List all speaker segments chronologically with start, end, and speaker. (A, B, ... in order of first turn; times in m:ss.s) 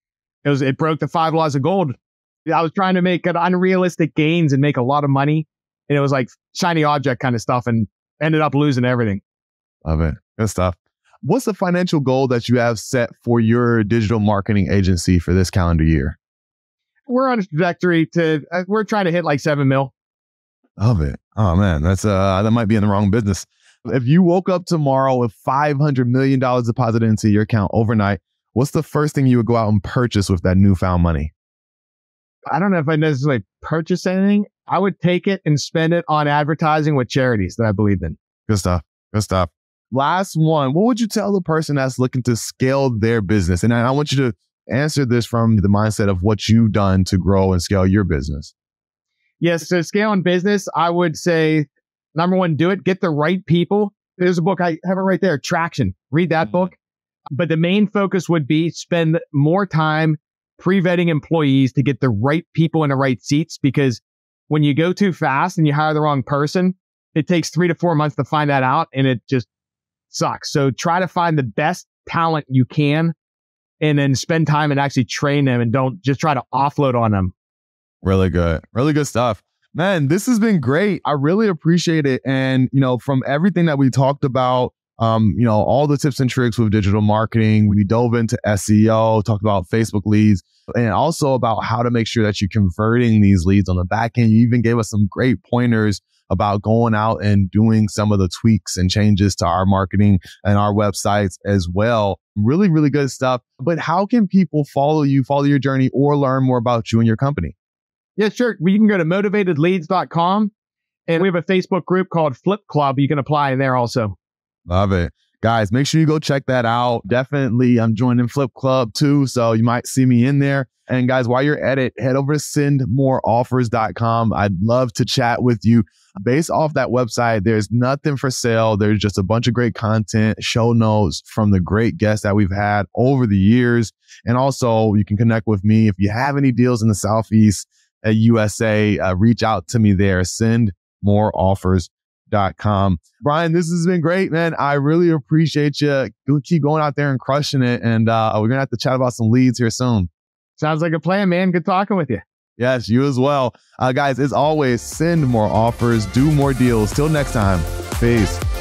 0:00.4-0:01.9 A
0:02.4-0:09.2 A
0:09.8-0:16.2 B
0:17.1-0:19.9 A
0:20.8-0:31.3 B
0:32.5-0:38.2 A
0:38.5-0:48.5 B
0:49.4-0:56.7 A
0:57.3-1:09.5 A
1:10.1-1:13.1 A
1:13.8-1:17.3 A
1:18.0-1:47.5 B
1:48.2-1:50.5 A
1:51.1-1:54.1 A
1:54.7-2:30.1 B
2:30.6-2:32.2 A
2:32.6-2:38.4 B